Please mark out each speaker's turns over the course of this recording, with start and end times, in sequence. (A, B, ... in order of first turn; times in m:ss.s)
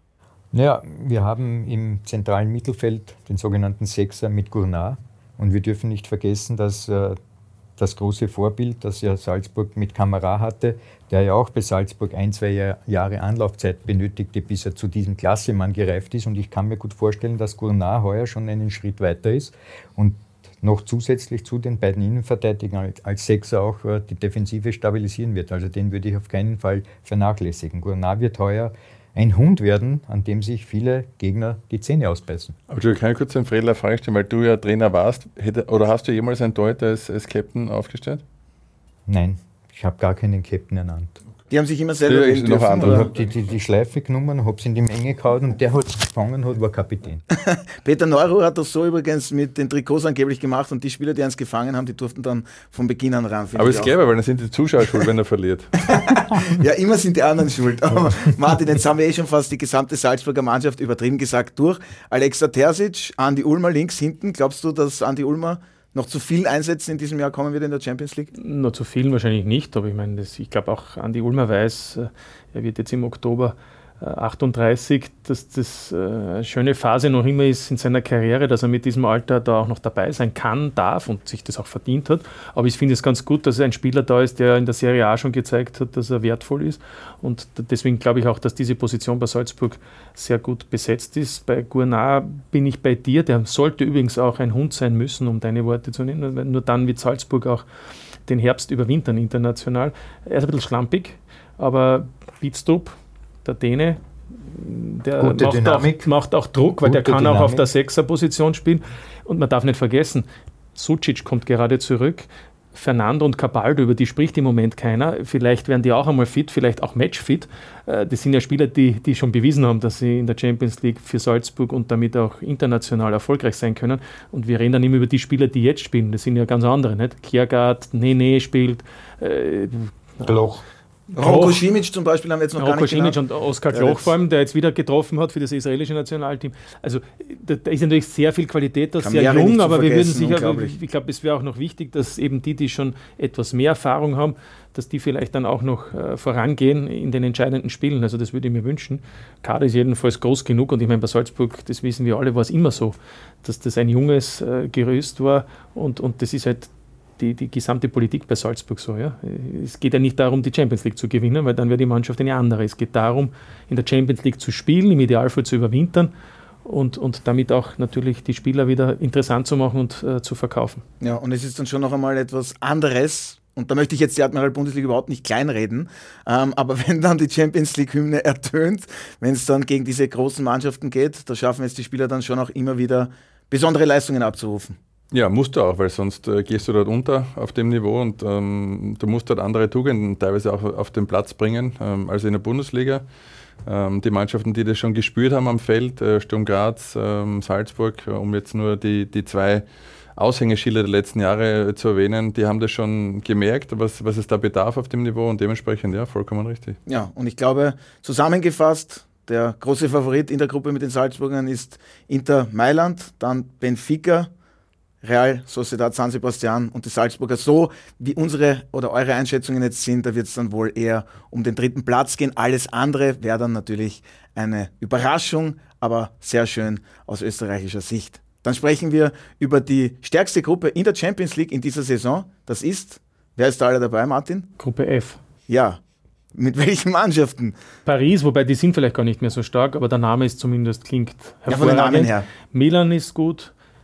0:00.5-0:07.2 A
0:07.8-0:32.5 A
0:32.7-0:38.2 B
0:39.1-0:41.2 A
0:41.5-0:43.1 C
0:42.1-0:43.2 B
0:42.8-0:47.2 A
0:47.4-0:53.9 C
0:53.5-0:55.7 B
0:55.8-1:08.3 C
1:08.4-1:37.6 D
1:38.2-2:10.3 D
1:45.2-1:46.1 A
1:46.8-1:47.7 A
2:10.2-2:10.6 A
2:11.1-2:11.6 D
2:11.2-2:13.2 C
2:12.6-2:46.1 D
2:13.7-2:14.1 C
2:19.0-2:20.7 C
2:46.6-2:50.8 D
2:51.0-3:04.8 C
3:05.1-3:13.0 B
3:13.6-3:19.6 B
3:20.2-3:26.8 B
3:26.9-3:34.3 C
3:35.0-3:54.5 C
3:54.6-3:55.2 D
3:55.5-3:55.8 C
3:56.3-3:57.5 C
3:57.8-4:03.5 D
4:01.5-4:02.2 C